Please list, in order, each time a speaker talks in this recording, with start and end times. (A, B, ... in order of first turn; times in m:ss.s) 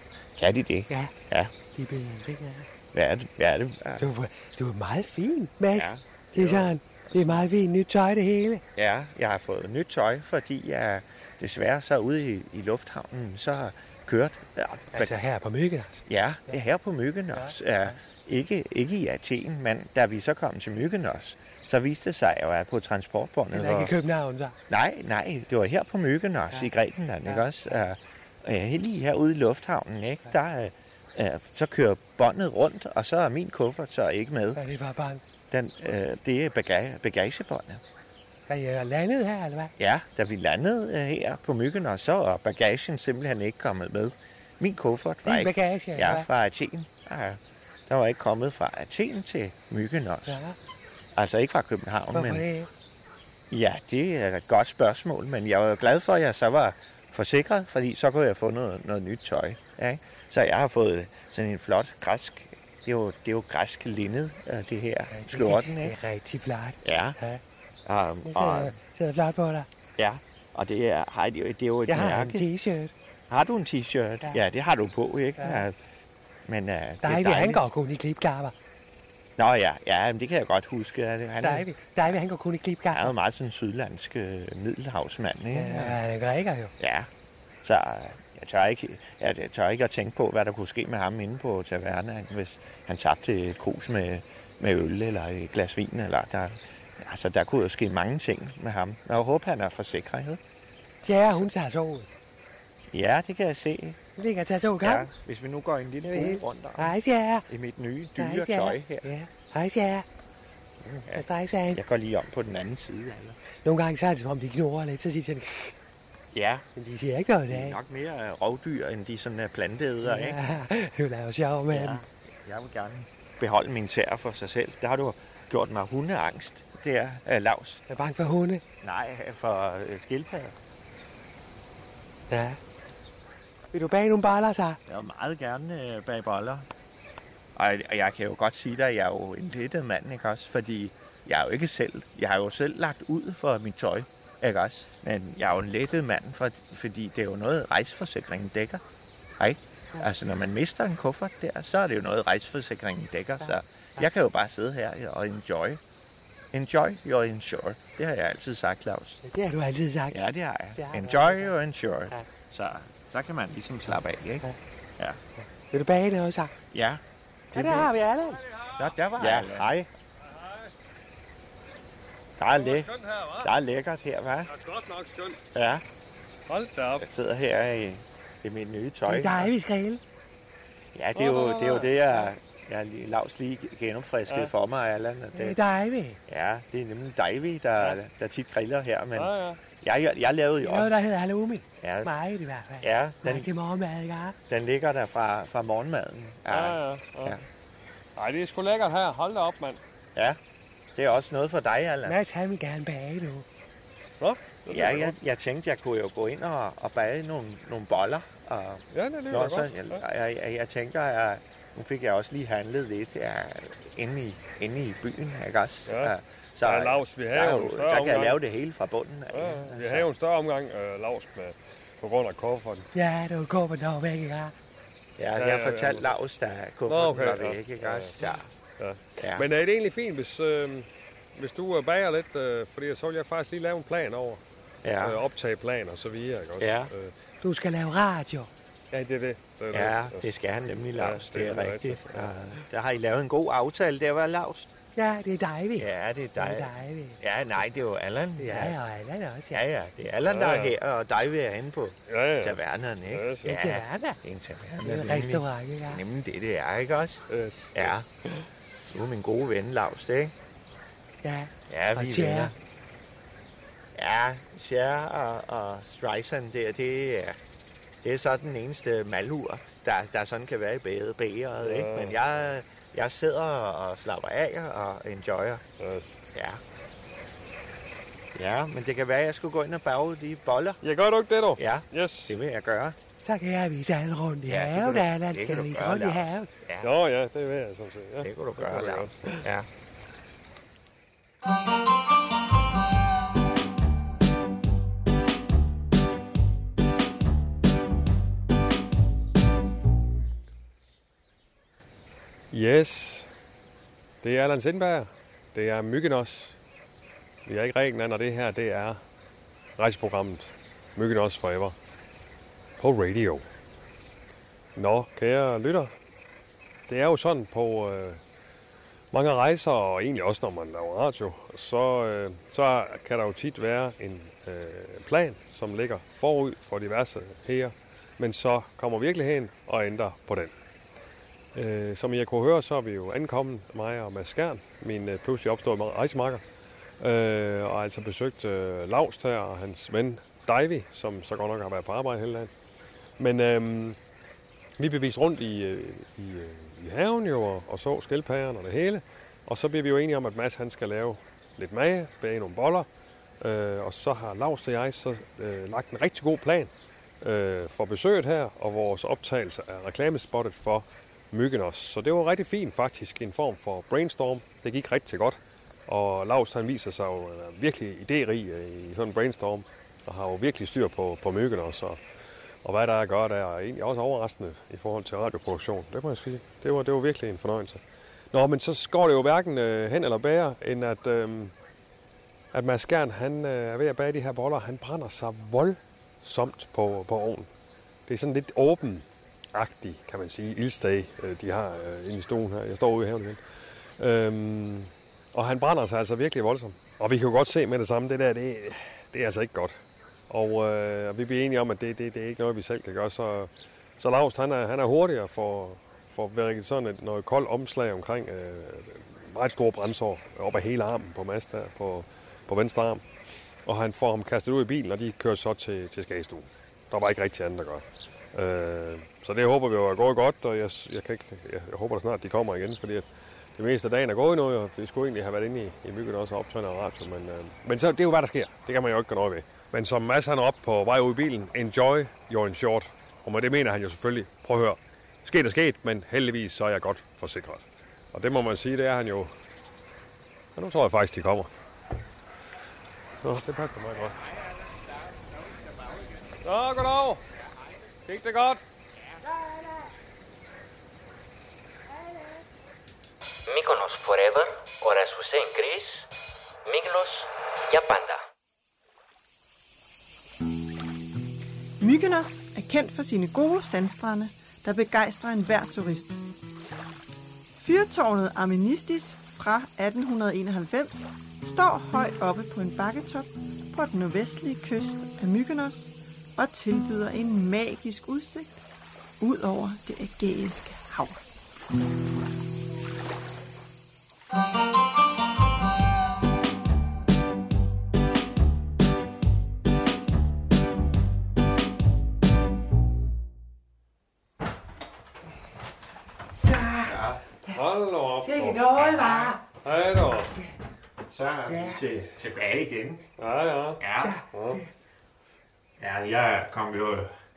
0:00.4-0:01.5 A
0:01.7-0:02.7 B
0:02.9-0:04.1 A
0:04.0-0:08.6 B
0:05.7-0:07.4 A
0:08.7-0:15.1 A
0:14.9-0:16.6 B
0:16.1-0:23.9 A
0:17.3-0:18.0 B
0:23.5-0:24.6 B
0:24.7-0:34.6 A
0:34.5-0:35.2 B
0:35.5-0:37.8 A
0:38.5-0:39.7 B
0:39.8-0:50.4 A
0:45.2-0:46.3 B
0:50.3-0:50.6 B
0:51.2-0:52.4 A
0:52.1-0:52.7 B
0:53.5-1:05.9 A
1:05.1-1:07.4 B
1:06.8-1:07.2 A
1:07.8-1:08.7 A
1:08.2-1:09.7 B
1:10.0-1:12.5 A
1:11.9-1:12.9 B
1:13.3-1:15.8 A
1:15.4-1:15.6 B
1:16.4-1:17.6 A
1:17.0-1:18.5 B
1:19.4-1:21.7 A
1:21.4-1:23.1 B
1:22.9-1:26.0 A
1:25.5-1:26.7 B
1:26.8-1:27.1 A
1:27.6-1:40.4 A
1:41.0-1:42.1 B
1:42.9-1:44.0 A
1:44.2-1:45.1 B
1:44.8-1:47.0 A
1:46.1-1:47.4 B
1:47.5-1:49.1 A
1:48.2-1:50.0 B
1:50.8-1:53.4 A
1:51.1-1:51.8 B
1:53.6-1:55.7 B
1:56.3-1:56.6 A
1:56.8-1:57.8 B
1:57.5-2:00.4 A
2:00.0-2:02.0 B
2:01.7-2:07.8 A
2:07.9-2:08.6 B
2:08.8-2:10.5 A
2:12.3-2:12.6 B
2:13.7-2:14.8 B
2:14.9-2:16.7 A
2:17.6-2:28.8 A
2:29.4-2:35.8 A
2:33.4-2:34.0 B
2:36.5-2:39.2 A
2:39.2-2:40.2 B
2:40.1-2:44.4 A
2:40.8-2:41.5 B
2:45.4-2:46.5 B
2:46.7-2:47.0 A
2:47.5-2:47.9 A
2:47.5-2:48.4 B
2:48.4-2:49.6 C
2:48.8-2:49.9 A
2:50.2-2:50.7 C
2:52.4-2:54.5 A
2:52.5-2:53.5 C
2:54.4-2:55.4 C
2:55.5-2:55.8 A
2:56.5-2:57.0 C
2:57.0-2:59.5 A
2:59.1-3:00.0 B
3:00.9-3:05.6 A
3:01.1-3:02.0 C
3:05.3-3:06.2 B
3:06.3-3:10.9 A
3:09.1-3:09.6 C
3:10.6-3:14.4 B
3:11.8-3:12.1 A
3:12.8-3:13.5 A
3:14.5-3:17.4 A
3:16.5-3:17.4 C
3:18.2-3:19.8 C
3:20.9-3:22.2 A
3:22.0-3:23.4 B
3:24.2-3:25.1 C
3:24.7-3:40.1 A
3:28.9-3:30.0 C
3:35.9-3:38.4 C
3:39.3-3:42.9 C
3:42.9-3:44.5 B
3:45.2-3:48.4 A
3:45.4-3:46.1 C
3:46.9-3:48.2 C
3:48.8-3:54.4 C
3:49.2-3:49.4 A
3:54.8-3:55.2 A
3:55.0-3:57.1 C
3:56.6-3:56.9 A
3:57.4-3:58.5 B
3:58.9-4:00.2 C
3:59.7-4:04.7 A
4:01.0-4:02.3 C
4:05.0-4:07.2 B
4:05.8-4:08.8 A
4:08.4-4:09.6 B
4:09.5-4:18.1 A
4:10.2-4:10.7 C
4:12.1-4:13.5 C
4:13.4-4:14.2 B
4:14.8-4:16.0 B
4:17.3-4:18.4 C
4:18.9-4:20.3 A
4:21.2-4:22.5 B
4:21.7-4:22.5 A
4:23.9-4:27.4 A
4:28.0-4:35.6 A
4:31.6-4:32.2 C
4:35.8-4:36.2 C
4:36.3-4:36.6 A
4:38.3-4:40.8 A
4:40.8-4:42.3 C
4:41.6-4:43.0 A
4:43.2-4:46.5 B
4:44.4-4:46.9 A
4:46.8-4:49.4 C
4:48.2-4:49.7 A
5:02.5-5:03.3 C
5:04.2-5:06.6 C
5:07.4-5:09.0 C
5:09.8-5:11.7 C
5:12.8-5:13.4 C
5:14.8-5:15.9 C
5:16.9-5:18.2 C
5:19.1-5:30.5 C
5:31.5-5:36.4 C
5:37.0-5:42.5 C
5:43.2-5:44.0 C
5:44.8-5:52.9 C
5:53.4-6:12.0 C
6:12.6-6:21.5 C
6:22.5-6:27.5 C
6:28.1-6:33.4 C
6:34.0-6:39.8 C
6:40.3-6:53.0 C
6:53.6-7:03.0 C
7:03.6-7:19.3 C
7:20.6-7:21.5 C
7:23.2-7:24.2 C
7:26.4-7:27.2 C
7:28.0-7:28.6 C
7:33.5-7:36.1 D
7:36.6-7:38.2 D
7:41.8-7:46.2 E
7:47.6-7:58.6 E
7:59.2-8:01.2 E
8:16.3-8:17.6 B
8:16.8-8:17.2 A
8:17.5-8:20.3 C
8:18.2-8:19.4 B
8:18.8-8:19.3 A
8:21.0-8:23.0 A
8:21.5-8:21.8 B
8:23.2-8:24.6 C
8:23.8-8:24.2 A
8:24.0-8:24.7 B
8:25.8-8:27.1 A